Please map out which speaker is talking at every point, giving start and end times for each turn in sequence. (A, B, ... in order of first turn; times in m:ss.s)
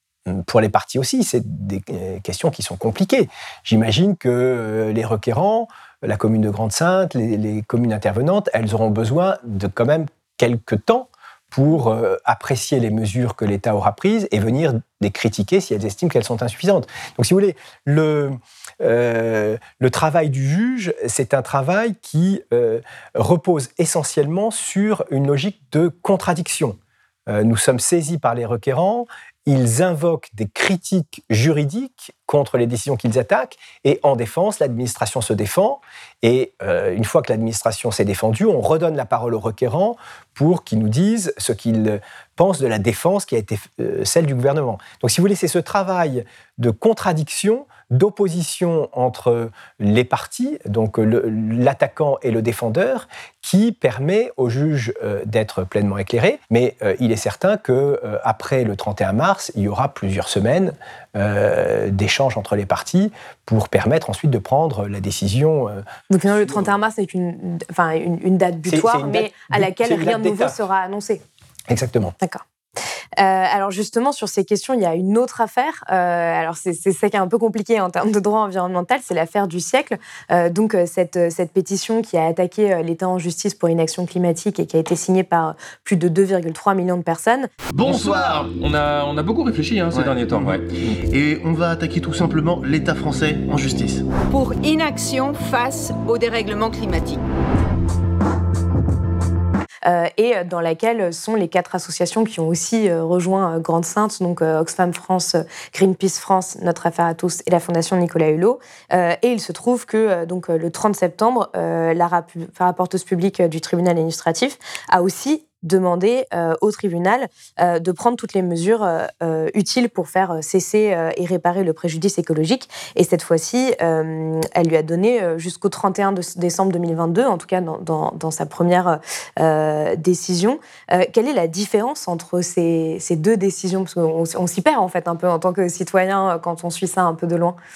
0:00.3-1:06.7 A
1:06.1-1:11.2 B
1:08.7-1:10.6 A
1:11.7-1:12.2 A
1:13.2-1:27.5 B
1:27.8-1:30.7 C
1:27.8-1:28.5 D
1:29.9-1:34.1 D
1:34.3-1:37.2 E
1:39.9-2:17.6 B